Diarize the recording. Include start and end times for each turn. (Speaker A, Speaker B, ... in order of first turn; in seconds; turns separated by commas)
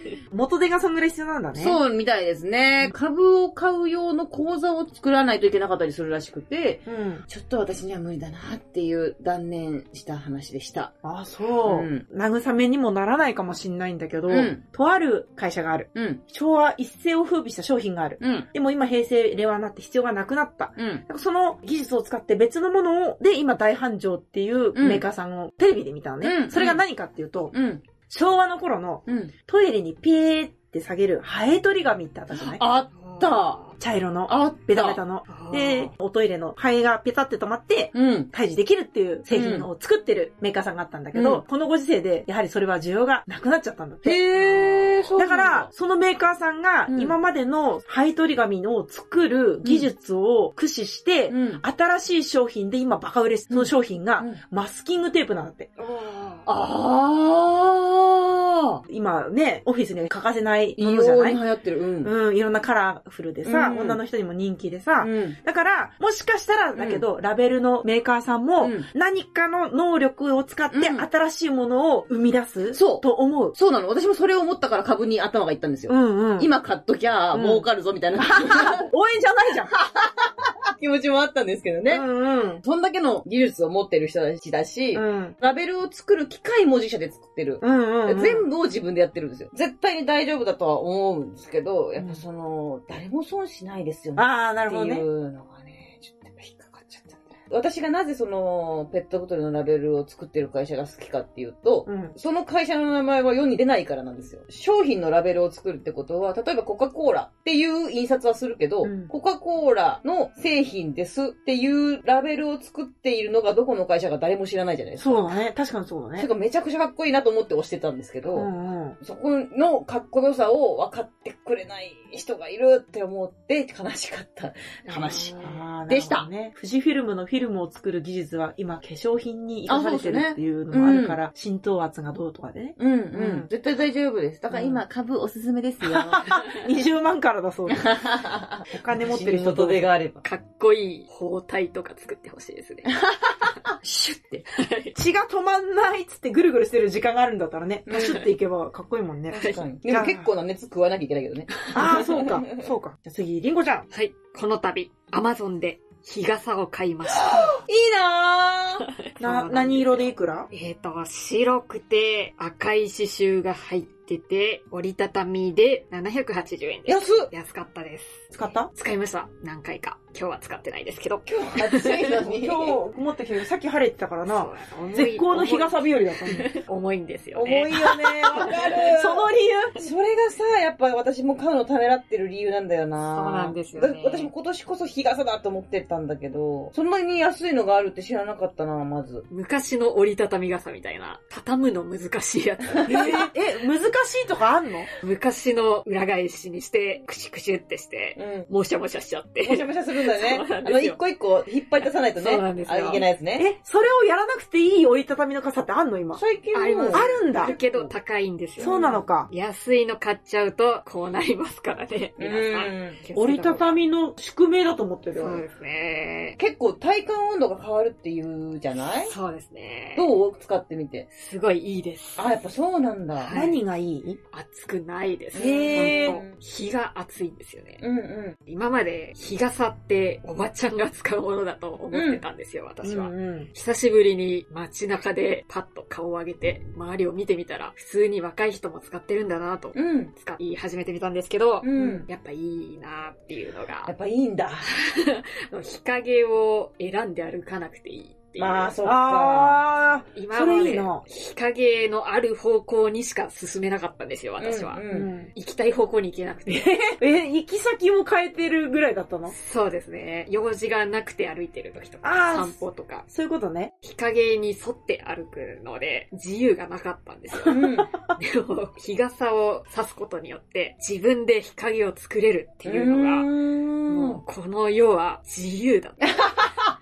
Speaker A: 0.3-1.8, Speaker B: 1.6-10.9, Speaker A: 6.9-7.2, Speaker A: 11.0-27.5, Speaker B: 11.6-12.0, Speaker B: 14.3-14.6, Speaker B: 15.9-16.2, Speaker B: 18.2-18.5, Speaker B: 20.8-21.0, Speaker B: 24.8-25.0, Speaker B: 26.2-26.8, Speaker B: 27.5-27.8, Speaker A: 28.1-32.6, Speaker B: 29.1-29.3, Speaker B: 32.3-33.6, Speaker C: 33.0-33.8, Speaker A: 33.8-44.2, Speaker B: 34.3-35.0, Speaker C: 35.3-35.9, Speaker B: 37.9-38.3, Speaker B: 39.3-39.7, Speaker B: 41.1-41.4, Speaker B: 44.0-45.7, Speaker C: 44.4-45.0, Speaker A: 45.2-55.7, Speaker B: 46.9-47.2, Speaker B: 49.6-49.9, Speaker B: 51.3-51.6, Speaker B: 53.5-54.4, Speaker C: 55.8-56.5, Speaker B: 56.5-58.8, Speaker A: 58.9-61.4, Speaker B: 60.8-62.1, Speaker A: 62.0-73.6, Speaker B: 63.4-64.0, Speaker B: 65.0-65.4, Speaker B: 66.8-67.1, Speaker B: 68.6-68.9, Speaker B: 70.7-71.1, Speaker B: 72.7-78.9, Speaker A: 75.9-76.5, Speaker A: 77.3-77.7, Speaker A: 78.2-79.7, Speaker B: 79.7-82.1, Speaker A: 81.9-82.6, Speaker B: 82.6-115.4, Speaker A: 84.9-85.3, Speaker A: 87.6-88.5, Speaker A: 92.0-92.2, Speaker A: 94.2-95.0, Speaker A: 101.9-102.2, Speaker A: 108.8-109.1, Speaker A: 115.0-116.3, Speaker B: 116.2-118.5, Speaker A: 118.3-119.0, Speaker B: 119.0-126.3, Speaker C: 124.9-125.5, Speaker A: 125.4-133.5, Speaker B: 129.7-131.2, Speaker B: 132.8-136.4, Speaker A: 134.5-134.8, Speaker A: 135.8-137.9, Speaker B: 137.7-140.2, Speaker A: 138.7-139.8, Speaker C: 140.2-142.9, Speaker B: 142.9-144.4, Speaker C: 144.5-145.0, Speaker A: 145.0-150.3, Speaker C: 147.9-148.3, Speaker B: 147.9-148.2, Speaker C: 149.3-149.6, Speaker B: 149.3-152.6, Speaker A: 151.7-153.9, Speaker C: 153.9-157.6, Speaker B: 157.1-158.8, Speaker C: 158.8-172.2, Speaker A: 159.2-160.5, Speaker B: 166.9-167.3, Speaker A: 168.3-168.7, Speaker B: 171.3-172.8, Speaker A: 172.2-176.5, Speaker C: 174.3-178.6, Speaker B: 177.3-189.3, Speaker A: 178.2-179.9, Speaker C: 183.1-184.3, Speaker C: 189.3-193.3, Speaker A: 192.9-194.9, Speaker C: 195.0-201.0, Speaker B: 198.2-198.5, Speaker B: 199.4-203.5, Speaker C: 201.8-203.1, Speaker A: 203.4-206.2, Speaker B: 206.2-207.9, Speaker C: 206.5-213.8, Speaker A: 206.9-207.5, Speaker A: 208.6-209.3, Speaker B: 212.2-213.0, Speaker A: 213.2-215.4, Speaker C: 215.2-216.4, Speaker B: 216.4-219.1, Speaker C: 219.0-220.1, Speaker B: 220.0-221.1, Speaker C: 221.1-222.3, Speaker B: 222.2-223.3, Speaker C: 223.2-223.6, Speaker A: 223.3-224.2, Speaker C: 224.3-227.8, Speaker B: 225.3-226.4, Speaker A: 225.6-226.2, Speaker B: 227.8-228.4, Speaker C: 228.5-243.9, Speaker B: 231.9-232.2, Speaker A: 232.8-233.5, Speaker B: 239.7-240.1, Speaker B: 241.6-242.1, Speaker A: 241.8-242.1, Speaker B: 243.9-244.7, Speaker C: 244.6-248.8, Speaker B: 248.4-249.6, Speaker A: 248.8-251.0, Speaker C: 250.2-256.8, Speaker B: 254.4-255.1, Speaker A: 254.9-255.3, Speaker A: 256.5-259.3, Speaker C: 259.3-263.1, Speaker A: 262.0-263.7, Speaker C: 263.8-273.3, Speaker B: 267.4-267.9, Speaker B: 272.6-274.2, Speaker C: 273.9-276.5, Speaker B: 276.1-276.7